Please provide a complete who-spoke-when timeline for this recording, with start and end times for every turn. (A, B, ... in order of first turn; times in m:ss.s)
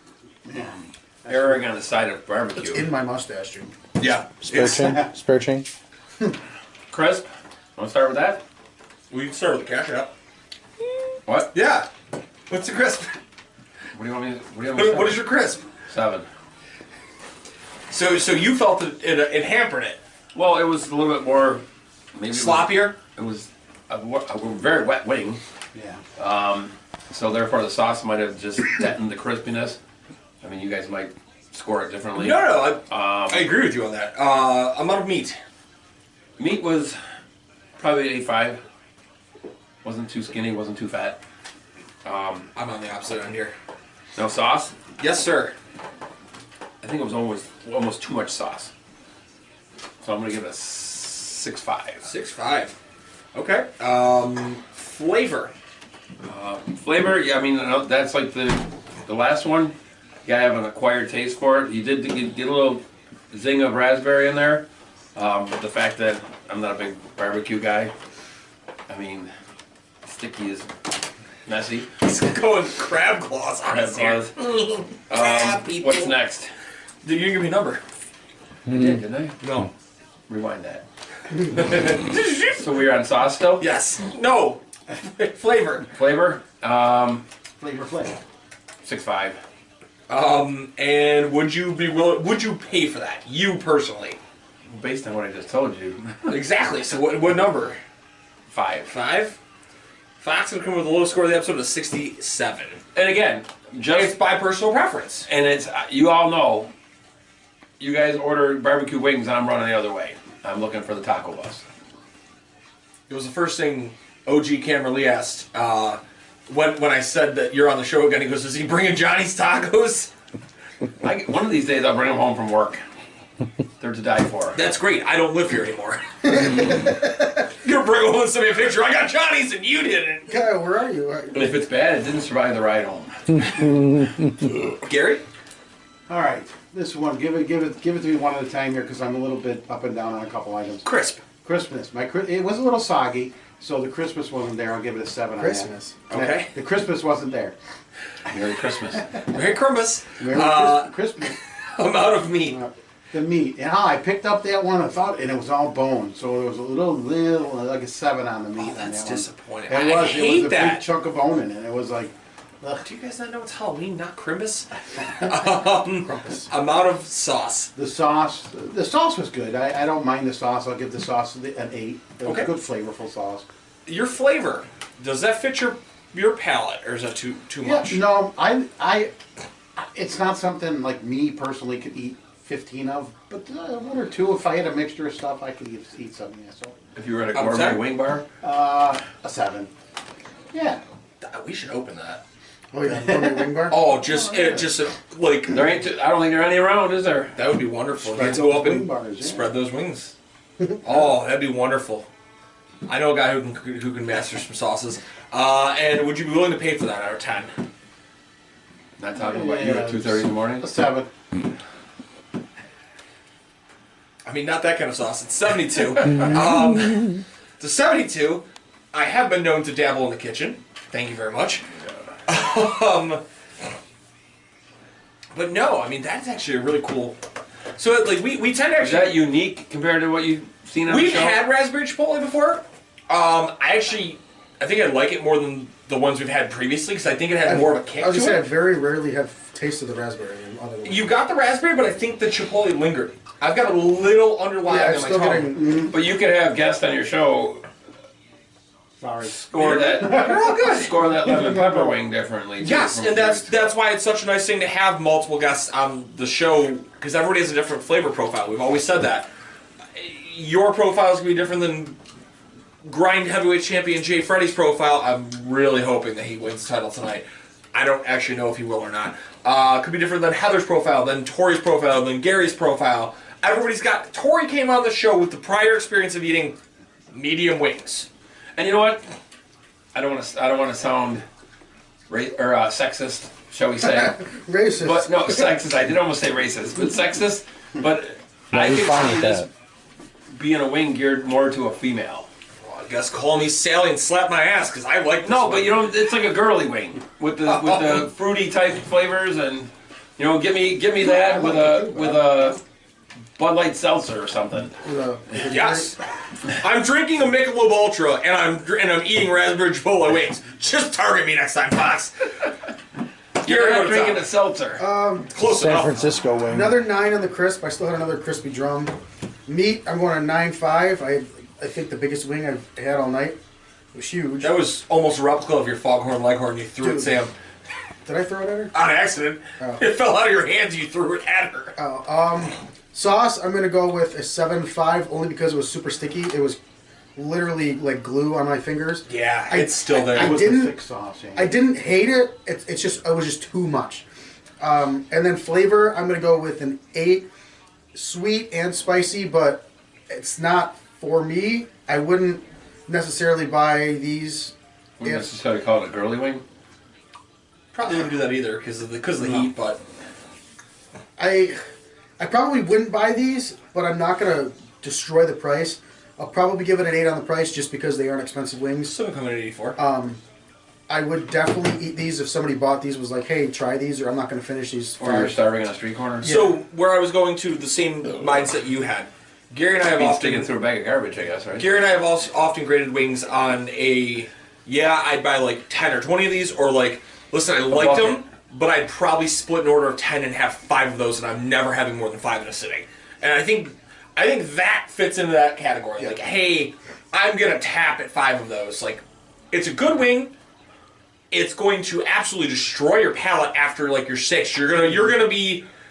0:00.4-0:01.6 A
0:01.3-0:02.9 B
0:02.6-0:03.7 C
0:04.0-0:04.9 D
0:04.4-0:05.7 E
0:06.9-0:08.4 B
0:09.1-0:10.1 D
0:11.3-0:11.5 B
0:11.5-0:11.9 D
0:12.5-0:13.2 D
0:13.9-0:15.3 B
0:14.7-0:15.6 D
0:15.8-0:16.3 B
0:17.9-0:20.0 D
0:20.3-0:25.4 B
0:22.3-0:23.0 D
0:25.7-0:26.0 A
0:26.2-0:29.8 B
0:30.4-0:33.5 B
0:32.2-0:35.4 D
0:36.4-0:36.9 B
0:37.8-0:38.6 B
0:39.8-0:41.2 B
0:42.0-0:42.5 B
0:42.5-0:43.5 D
0:44.1-0:44.7 B
0:45.0-0:45.5 D
0:46.8-0:48.7 B
0:50.0-0:52.1 B
0:52.0-0:52.7 D
0:53.3-0:55.5 D
0:56.2-1:07.9 B
1:08.9-1:09.3 B
1:10.0-1:10.7 B
1:11.4-1:11.9 B
1:12.0-1:16.1 D
1:13.7-1:14.3 B
1:15.1-1:16.5 B
1:17.0-1:17.8 D
1:18.7-1:19.4 B
1:19.4-1:19.7 D
1:20.3-1:20.8 B
1:21.5-1:22.6 D
1:21.5-1:21.8 B
1:22.5-1:23.7 B
1:23.6-1:25.9 D
1:25.9-1:27.2 B
1:27.6-1:28.2 A
1:28.8-1:29.4 B
1:30.1-1:34.2 D
1:34.7-1:36.3 B
1:36.3-1:37.8 D
1:38.5-1:38.9 B
1:38.9-1:39.4 D
1:40.2-1:42.8 D
1:42.9-1:44.2 B
1:43.9-1:45.3 D
1:45.3-1:46.7 B
1:47.8-1:51.6 B
1:53.1-2:00.1 D
2:01.0-2:02.8 B
2:03.8-2:04.6 B
2:04.5-2:10.3 D
2:10.3-2:11.5 C
2:11.3-2:13.4 B
2:14.8-2:15.2 D
2:16.1-2:20.8 A
2:20.8-2:21.2 D
2:21.4-2:27.5 A
2:25.4-2:26.0 C
2:26.1-2:26.5 D
2:28.3-2:29.2 B
2:29.3-2:32.6 D
2:30.2-2:31.3 A
2:33.1-2:42.8 A
2:38.6-2:40.8 D
2:42.8-2:47.7 D
2:45.9-2:46.5 C
2:47.8-2:53.4 A
2:52.2-2:52.5 D
2:53.8-2:58.0 D
2:57.6-2:59.1 A
2:59.8-3:06.7 A
3:06.9-3:08.2 B
3:07.3-3:07.8 D
3:08.4-3:09.7 A
3:10.5-3:10.8 A
3:11.2-3:12.2 D
3:12.7-3:13.8 C
3:12.9-3:14.7 A
3:13.7-3:15.6 D
3:15.5-3:17.3 B
3:17.3-3:20.1 D
3:18.0-3:19.6 A
3:20.8-3:22.1 D
3:22.8-3:27.5 D
3:29.0-3:30.6 B
3:29.2-3:31.1 A
3:34.2-3:41.6 D
3:42.3-3:43.2 D
3:45.3-3:47.2 D
3:47.8-3:49.2 D
3:48.8-3:51.4 B
3:50.9-3:58.5 D
3:57.4-4:01.1 C
4:00.8-4:05.6 D
4:04.6-4:05.9 C
4:05.6-4:05.9 A
4:05.9-4:07.6 B
4:09.0-4:10.6 A
4:09.2-4:13.7 B
4:09.6-4:10.9 D
4:11.2-4:12.0 A
4:12.6-4:19.3 D
4:19.9-4:22.0 D
4:22.8-4:36.6 D
4:37.1-4:38.1 D
4:38.6-4:39.0 B
4:39.9-4:41.2 B
4:42.1-4:44.2 B
4:44.0-4:45.5 C
4:44.8-4:49.5 B
4:48.5-4:49.5 E
4:50.3-4:52.3 B
4:52.6-4:55.8 D
4:55.2-5:02.6 B
4:57.4-4:58.1 D
5:01.4-5:02.1 A
5:03.4-5:04.7 B
5:04.8-5:06.0 C
5:05.5-5:06.0 D
5:06.5-5:12.3 D
5:13.4-5:14.2 D
5:13.4-5:14.8 B
5:14.8-5:15.3 C
5:15.3-5:16.2 D
5:15.4-5:16.8 E
5:16.5-5:18.9 C
5:19.4-5:23.4 C
5:23.9-5:24.5 C
5:24.4-5:27.3 D
5:26.8-5:27.2 C
5:28.0-5:28.7 C
5:28.7-5:31.7 D
5:31.8-5:36.6 C
5:37.2-5:40.7 C
5:39.1-5:40.4 D
5:40.1-5:41.5 A
5:41.3-5:44.0 C
5:44.6-5:47.3 C
5:47.9-5:55.3 C
5:55.0-5:56.4 B
5:57.7-5:59.8 D
6:01.2-6:01.6 C
6:02.2-6:09.0 C
6:08.8-6:09.8 D
6:09.8-6:10.2 C
6:10.9-6:15.3 C
6:15.0-6:16.3 B
6:16.2-6:16.5 C
6:16.2-6:20.5 D
6:20.0-6:21.7 B
6:21.6-6:40.3 D
6:27.7-6:28.2 B
6:41.3-6:45.6 D